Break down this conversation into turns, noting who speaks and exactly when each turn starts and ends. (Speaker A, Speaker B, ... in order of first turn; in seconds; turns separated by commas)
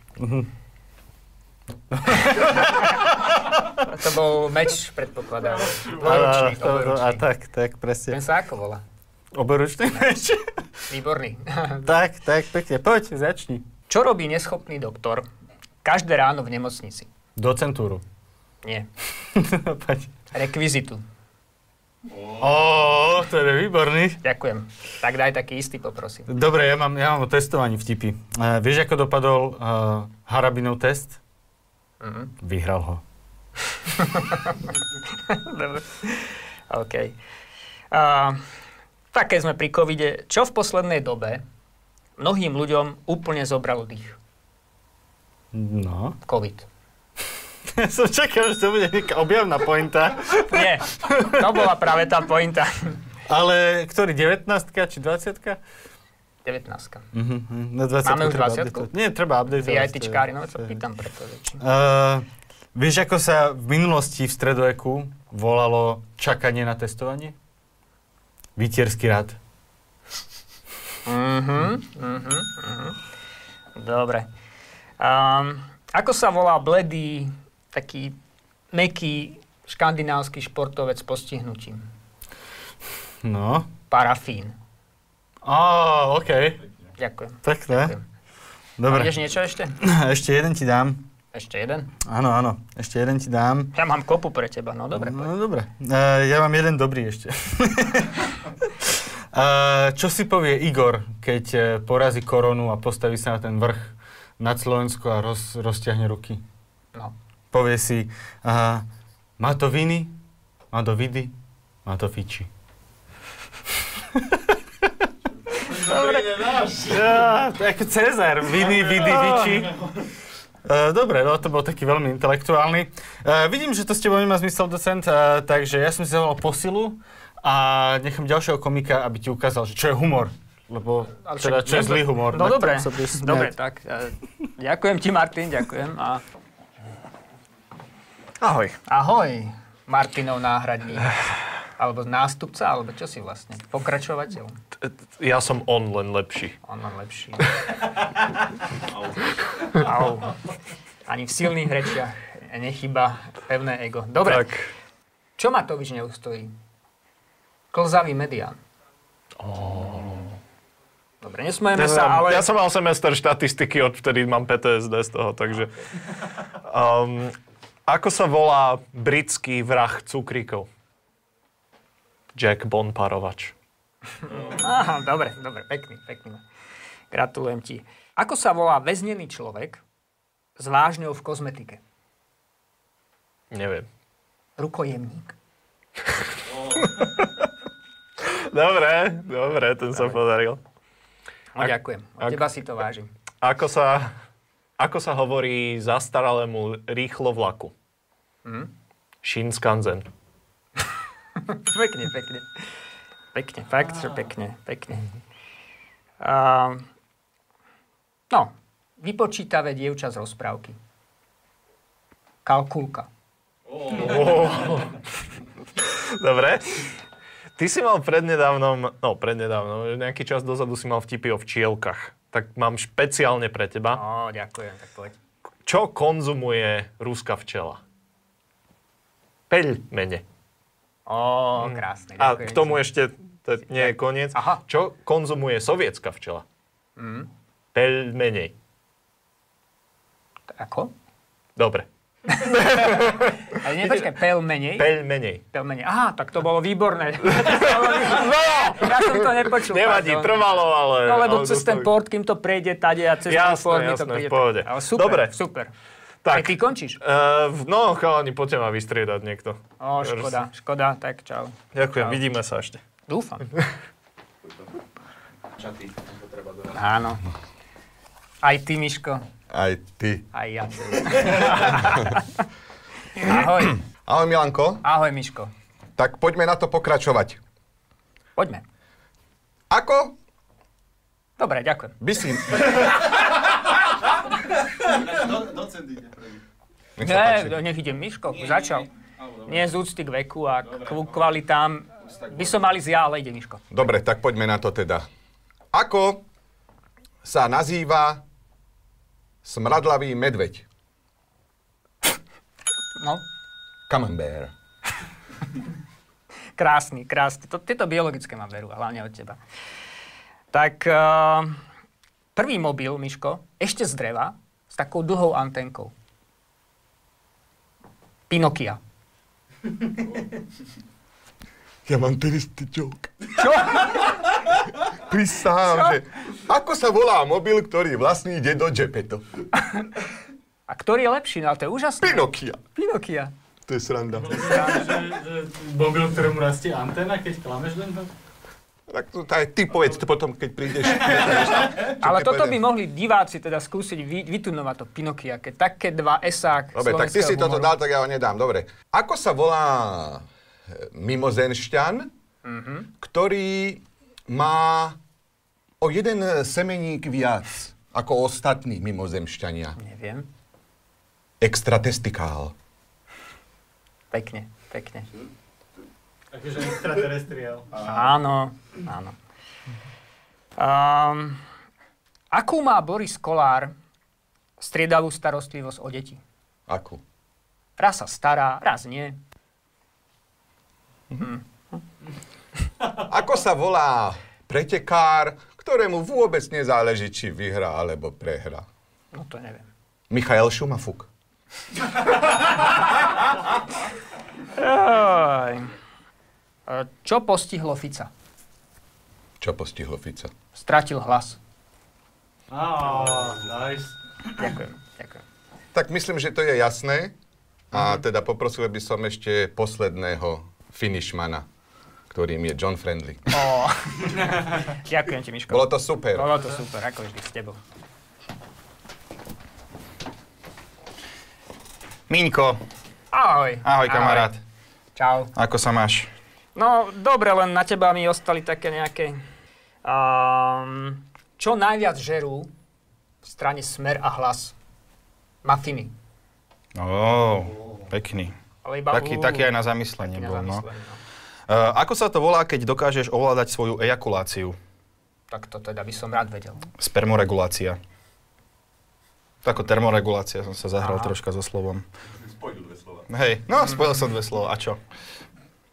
Speaker A: 0.2-0.5, Speaker A: 1.9-3.1, Speaker B: 3.7-7.3, Speaker A: 5.9-8.2, Speaker B: 8.1-8.8, Speaker A: 9.3-10.4, Speaker B: 10.9-11.9, Speaker A: 11.8-13.7, Speaker B: 13.9-15.3, Speaker B: 15.8-17.1, Speaker A: 17.4-18.0, Speaker A: 19.3-20.1, Speaker B: 20.3-21.0, Speaker A: 22.1-24.2, Speaker B: 24.2-26.3, Speaker A: 26.3-31.2, Speaker B: 32.0-32.3, Speaker A: 32.4-33.0, Speaker B: 33.9-37.2, Speaker B: 37.9-38.4, Speaker B: 39.1-41.4, Speaker B: 42.2-44.2, Speaker A: 45.5-46.2, Speaker B: 46.2-46.7, Speaker A: 47.7-51.5, Speaker B: 50.5-53.0, Speaker A: 53.3-55.6, Speaker B: 56.5-57.0, Speaker A: 57.1-60.8, Speaker B: 58.0-58.9, Speaker B: 59.6-61.6, Speaker A: 61.6-67.3, Speaker A: 68.6-69.4, Speaker B: 71.1-73.0, Speaker B: 73.8-74.3, Speaker B: 75.0-78.1, Speaker B: 78.7-81.8, Speaker A: 83.2-83.7, Speaker B: 83.9-84.5, Speaker A: 85.5-86.6, Speaker B: 87.0-88.0, Speaker A: 87.4-87.9, Speaker A: 88.8-89.2, Speaker B: 88.9-89.8, Speaker A: 89.8-91.0, Speaker B: 91.3-91.9, Speaker A: 92.0-93.7, Speaker B: 93.7-95.3, Speaker A: 94.9-106.4, Speaker A: 107.5-108.8, Speaker A: 109.4-110.1, Speaker A: 110.7-111.3, Speaker A: 111.8-112.5, Speaker A: 114.1-114.5, Speaker A: 115.6-119.8, Speaker C: 119.0-119.7, Speaker A: 120.7-133.5, Speaker B: 131.2-136.2, Speaker C: 138.4-138.8, Speaker B: 138.9-141.2, Speaker B: 141.8-144.6, Speaker C: 144.8-146.6, Speaker B: 146.7-147.5, Speaker B: 149.7-150.4, Speaker B: 151.1-154.5, Speaker C: 154.3-154.7, Speaker B: 155.4-156.5, Speaker B: 157.7-158.6, Speaker C: 159.4-160.4, Speaker B: 161.2-162.5, Speaker C: 161.8-165.7, Speaker C: 166.6-167.4, Speaker C: 167.9-170.7, Speaker C: 172.3-173.5, Speaker B: 174.2-176.4, Speaker B: 177.1-179.8, Speaker B: 180.6-181.8, Speaker C: 183.5-183.9, Speaker B: 184.6-185.3, Speaker C: 186.7-187.5, Speaker C: 188.2-190.6, Speaker B: 191.6-193.1, Speaker C: 191.6-192.4, Speaker C: 193.4-194.1, Speaker C: 194.8-197.7, Speaker B: 198.4-198.7, Speaker C: 199.2-200.1, Speaker B: 201.4-202.5, Speaker B: 203.3-205.1, Speaker B: 206.2-206.8, Speaker B: 208.3-210.8, Speaker B: 212.4-213.1, Speaker C: 213.8-215.0, Speaker C: 215.8-216.9, Speaker C: 217.6-224.0, Speaker B: 223.9-225.2, Speaker C: 225.7-227.8, Speaker C: 229.5-230.2, Speaker B: 231.1-232.8, Speaker C: 231.6-236.4, Speaker B: 233.8-234.6, Speaker B: 237.0-237.3, Speaker C: 237.7-238.5, Speaker B: 240.5-240.9, Speaker C: 241.6-241.9, Speaker B: 242.3-244.9, Speaker C: 242.5-244.0, Speaker C: 244.8-245.4, Speaker B: 245.5-250.5, Speaker C: 247.3-251.9, Speaker B: 251.0-255.7, Speaker C: 253.2-255.3, Speaker C: 256.2-260.4, Speaker B: 256.3-257.0, Speaker B: 259.8-262.2, Speaker C: 261.7-262.8, Speaker B: 263.1-263.5, Speaker B: 266.7-267.2, Speaker B: 268.4-269.2, Speaker D: 269.5-270.2, Speaker B: 270.3-272.3, Speaker D: 271.5-272.1, Speaker B: 273.1-273.8, Speaker D: 273.9-274.8, Speaker B: 274.8-275.5, Speaker D: 276.0-277.4, Speaker B: 278.4-278.6, Speaker D: 279.7-280.1, Speaker B: 281.4-281.9, Speaker D: 282.0-283.0, Speaker D: 287.0-287.6, Speaker B: 287.0-293.6, Speaker D: 293.7-295.1, Speaker D: 295.7-296.2, Speaker D: 297.2-298.2, Speaker D: 299.4-300.6, Speaker B: 303.0-303.2, Speaker D: 303.9-304.5, Speaker B: 306.6-309.4, Speaker B: 310.5-311.6, Speaker B: 312.4-315.9, Speaker B: 318.3-318.8, Speaker D: 321.9-323.3, Speaker B: 323.4-324.1, Speaker D: 324.8-329.3, Speaker B: 330.7-333.3, Speaker D: 332.0-332.6, Speaker D: 333.7-334.4, Speaker A: 334.2-338.1, Speaker B: 334.3-334.9, Speaker D: 338.9-342.6, Speaker B: 341.8-347.7, Speaker D: 346.7-352.1, Speaker B: 352.4-352.9, Speaker D: 353.0-355.0, Speaker D: 355.8-359.8, Speaker B: 359.8-360.3, Speaker D: 361.4-362.5, Speaker B: 364.1-365.1, Speaker A: 366.3-367.7, Speaker B: 367.8-369.2, Speaker B: 370.6-371.4, Speaker B: 372.3-373.7, Speaker B: 374.6-376.2, Speaker D: 376.7-377.0, Speaker B: 377.8-379.2, Speaker B: 381.1-381.4, Speaker D: 382.9-388.6, Speaker B: 389.1-389.7, Speaker D: 390.1-391.1, Speaker B: 394.6-395.7, Speaker B: 396.7-398.1, Speaker D: 399.4-400.3, Speaker B: 400.6-401.4, Speaker A: 402.5-403.9, Speaker B: 404.4-405.2, Speaker D: 405.7-407.1, Speaker D: 407.7-411.5, Speaker D: 412.1-413.3, Speaker B: 413.3-417.6, Speaker D: 415.5-416.3, Speaker E: 422.1-422.6, Speaker B: 423.1-424.4, Speaker E: 423.6-424.4, Speaker B: 425.0-425.3, Speaker E: 425.3-426.1, Speaker B: 426.6-429.2, Speaker B: 429.9-432.5, Speaker B: 433.2-434.5, Speaker B: 435.4-435.9, Speaker E: 436.8-438.4, Speaker B: 438.6-441.0, Speaker E: 438.9-440.7, Speaker E: 441.5-444.6, Speaker B: 445.3-446.6, Speaker E: 446.8-447.8, Speaker E: 449.4-451.9, Speaker B: 450.8-451.2, Speaker E: 453.0-454.8